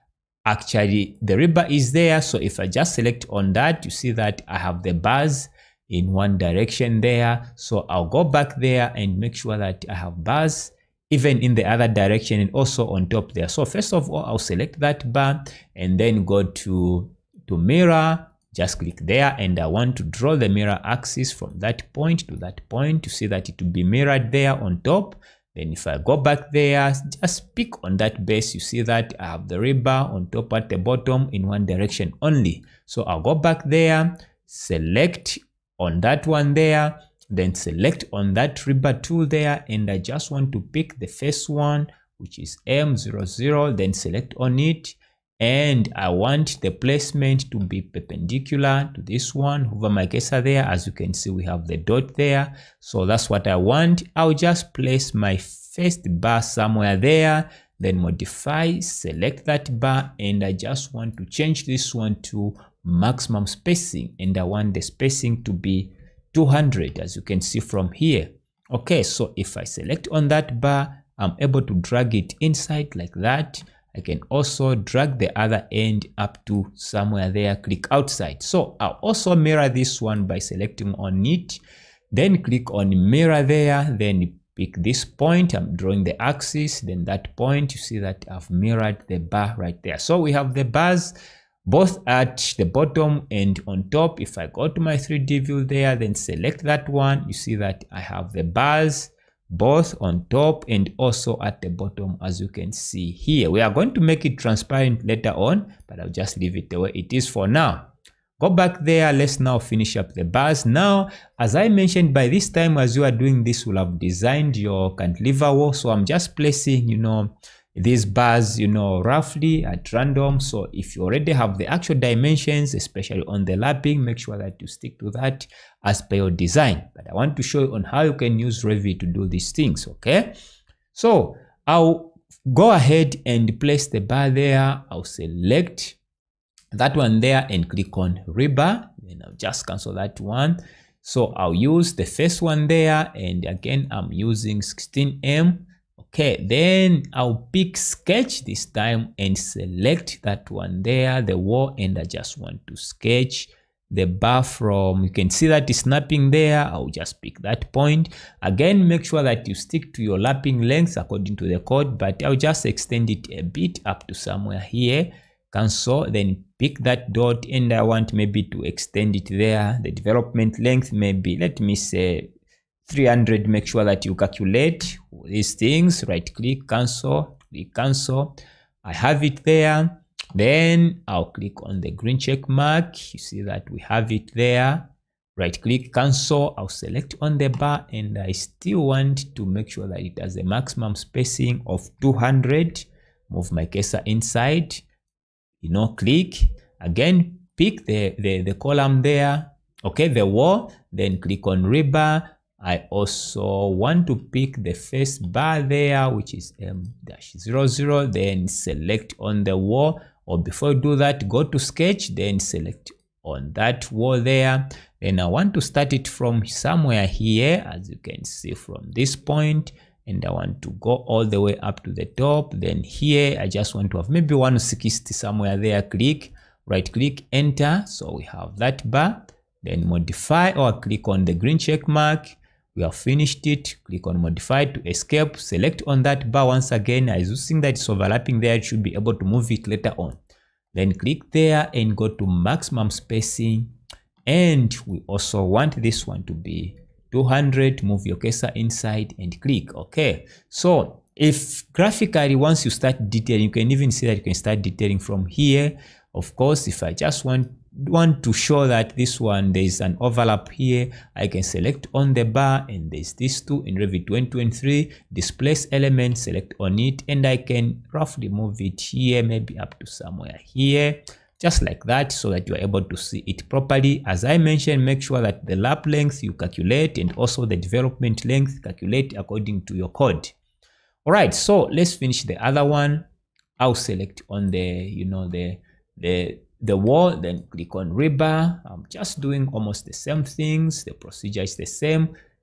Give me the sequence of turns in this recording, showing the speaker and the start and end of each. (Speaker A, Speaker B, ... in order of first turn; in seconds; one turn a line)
Speaker A: 0.5-81.6
Speaker A: 82.1-130.3
Speaker A: 130.9-136.0
Speaker A: 136.7-172.3
Speaker A: 172.9-194.8
Speaker A: 195.6-240.2
Speaker A: 240.7-243.7
Speaker A: 244.2-280.3
Speaker A: 281.0-283.1
Speaker A: 283.6-292.1